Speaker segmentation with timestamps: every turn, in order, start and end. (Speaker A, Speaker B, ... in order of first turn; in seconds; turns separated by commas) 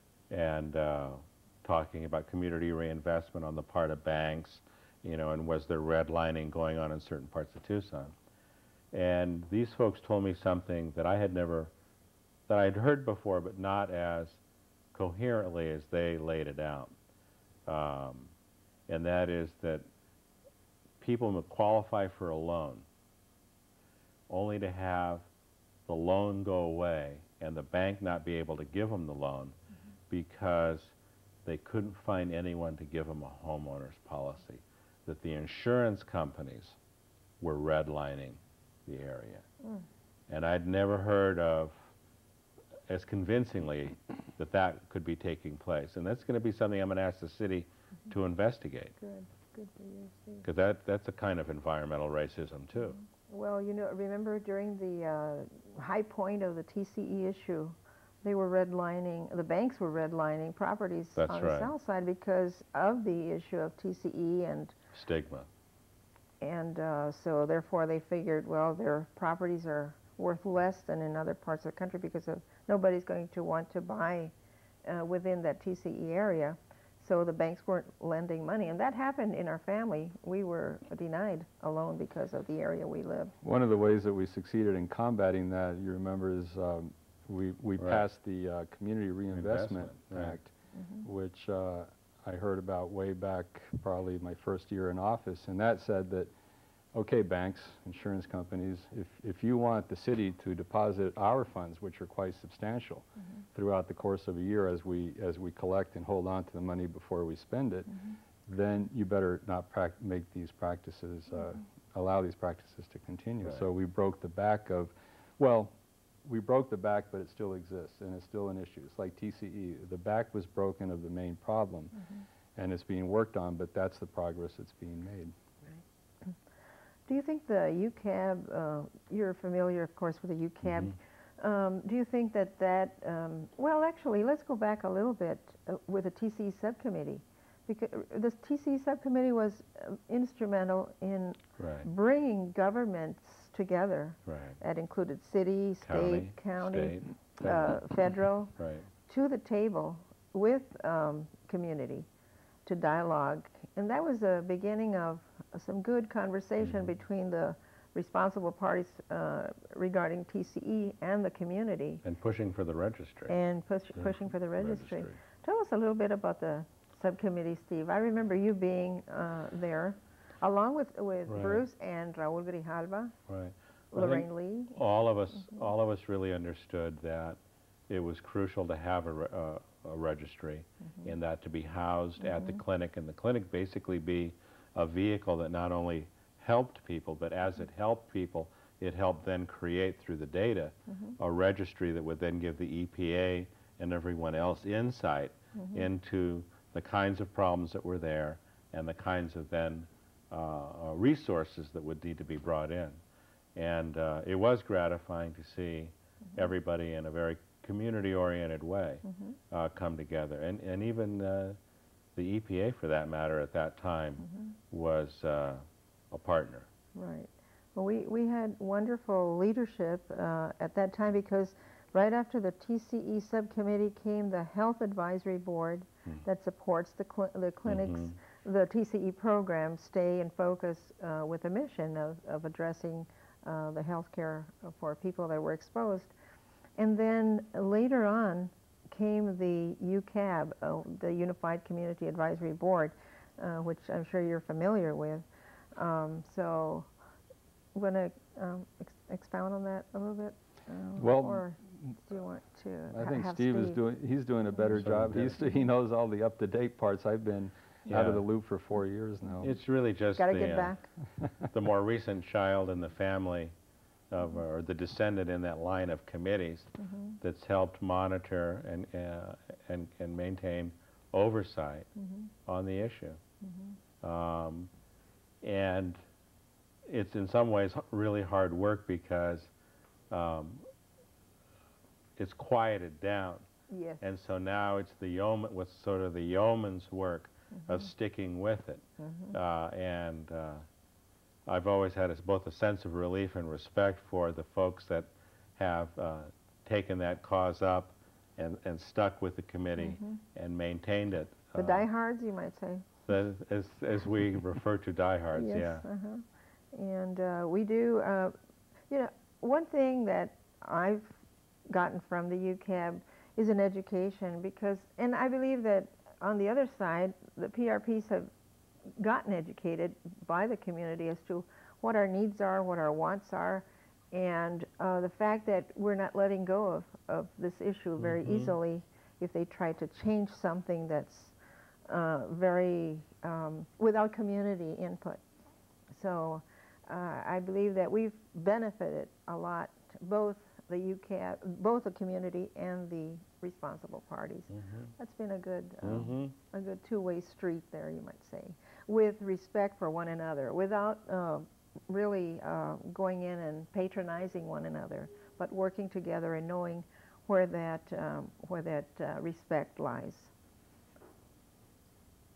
Speaker A: 0.3-8.2, Speaker A: 8.9-11.7, Speaker A: 12.5-14.4, Speaker A: 14.9-16.9, Speaker A: 17.7-18.3, Speaker A: 18.9-19.9, Speaker A: 21.0-22.9, Speaker A: 24.3-25.3, Speaker A: 25.9-29.6, Speaker A: 30.1-30.9, Speaker A: 31.4-36.8, Speaker A: 37.4-39.5, Speaker A: 40.3-41.8, Speaker A: 42.9-49.0, Speaker B: 49.0-50.5, Speaker A: 50.4-53.0, Speaker B: 53.3-64.8, Speaker A: 61.2-61.7, Speaker A: 64.9-65.5, Speaker B: 66.4-74.3, Speaker B: 74.8-83.3, Speaker C: 83.4-90.5, Speaker A: 87.8-88.0, Speaker A: 89.3-90.4, Speaker B: 90.7-91.1, Speaker C: 91.0-96.3, Speaker C: 96.9-108.0, Speaker C: 108.5-122.0, Speaker C: 122.6-125.3, Speaker B: 127.1-148.5, Speaker A: 130.7-130.9, Speaker A: 141.6-141.9, Speaker A: 144.3-144.6, Speaker A: 145.9-148.0, Speaker A: 148.6-148.9, Speaker B: 149.1-152.1, Speaker B: 152.7-162.0, Speaker A: 156.6-156.9, Speaker A: 162.0-163.3, Speaker B: 163.3-173.1, Speaker A: 164.0-165.2, Speaker A: 171.3-171.7, Speaker A: 173.3-203.0, Speaker B: 173.9-174.8, Speaker A: 203.6-211.6, Speaker B: 209.1-209.3, Speaker A: 212.2-216.7, Speaker B: 216.9-236.1, Speaker A: 227.7-228.2, Speaker B: 236.8-246.9, Speaker B: 247.7-253.8, Speaker C: 251.0-251.4, Speaker C: 252.9-259.6, Speaker A: 254.8-255.4, Speaker A: 257.9-258.2, Speaker A: 259.4-260.8, Speaker B: 260.2-260.9, Speaker A: 261.5-263.5, Speaker A: 264.1-271.9, Speaker A: 272.5-273.2, Speaker B: 273.4-273.7, Speaker A: 274.0-274.7, Speaker A: 275.4-276.0, Speaker A: 276.9-279.5, Speaker A: 280.1-280.7, Speaker A: 282.2-283.5, Speaker B: 283.7-284.0, Speaker A: 284.0-290.6, Speaker B: 289.0-289.4, Speaker A: 291.5-301.9, Speaker B: 299.8-300.2, Speaker B: 301.6-302.9, Speaker A: 303.1-305.8, Speaker B: 305.3-308.4, Speaker B: 308.9-311.2, Speaker B: 311.7-318.3, Speaker B: 319.0-331.4, Speaker A: 328.0-328.6, Speaker B: 331.9-335.2, Speaker B: 335.9-360.3, Speaker A: 344.5-344.9, Speaker A: 345.8-346.4